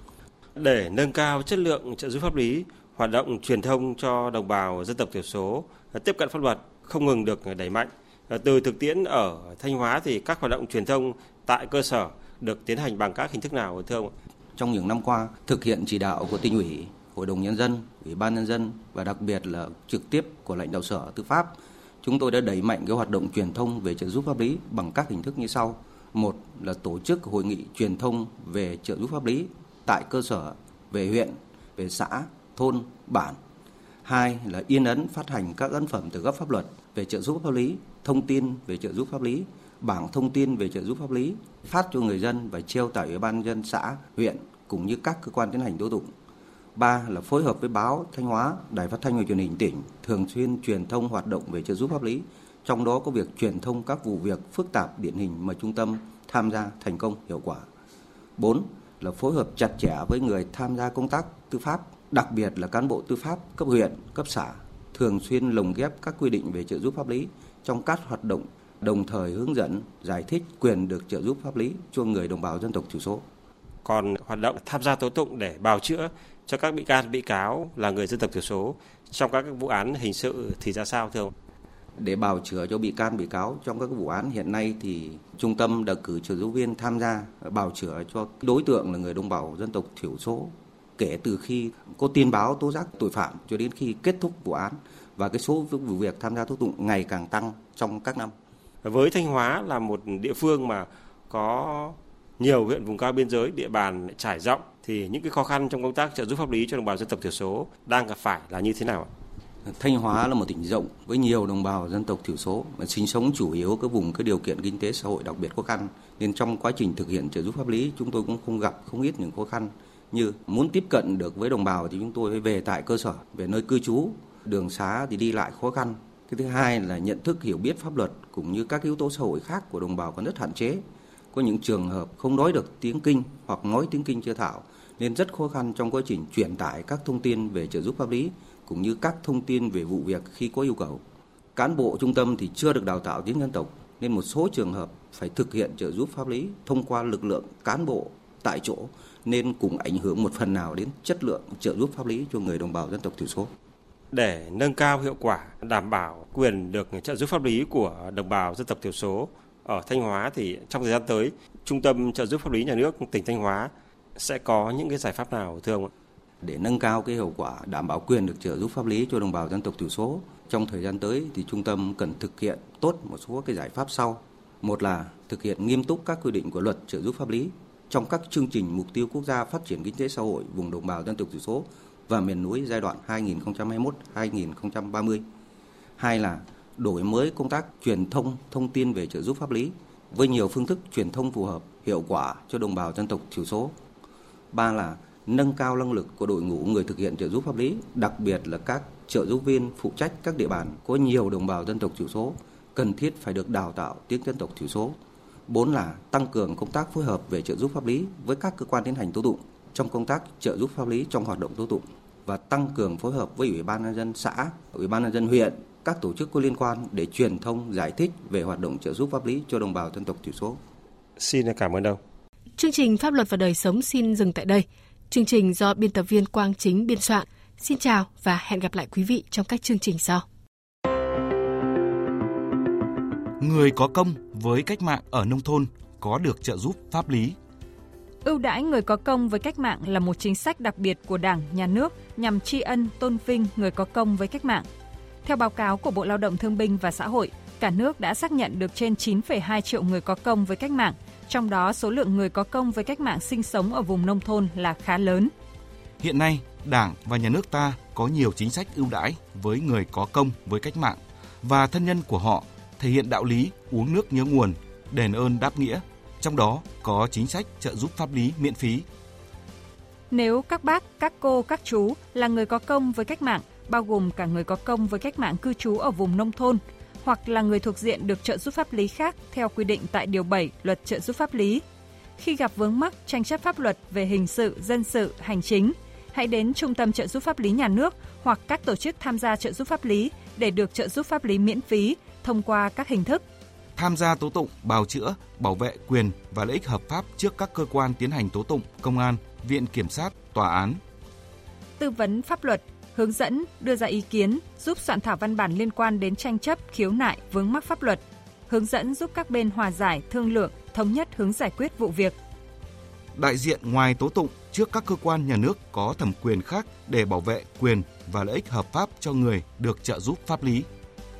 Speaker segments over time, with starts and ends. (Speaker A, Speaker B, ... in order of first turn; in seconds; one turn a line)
Speaker A: 0.6-14.1
Speaker B: 14.6-33.4
Speaker B: 34.0-46.1
Speaker B: 46.8-57.6
Speaker B: 58.4-73.2
Speaker A: 73.8-81.3
Speaker B: 82.0-98.3
Speaker A: 98.8-109.1
Speaker B: 109.7-141.0
Speaker B: 141.5-153.5
Speaker A: 154.1-165.9
Speaker B: 166.4-185.2
Speaker B: 186.0-193.7
Speaker B: 194.5-205.0
Speaker B: 205.5-220.6
Speaker A: 221.2-222.0
Speaker C: 222.6-230.2
Speaker D: 233.5-237.3
Speaker E: 238.2-244.7
Speaker E: 245.2-255.3
Speaker D: 256.0-260.9
Speaker D: 261.5-268.8
Speaker E: 270.1-281.6
Speaker E: 282.2-293.2
Speaker D: 293.8-300.8
Speaker E: 301.8-312.1
Speaker D: 313.2-320.6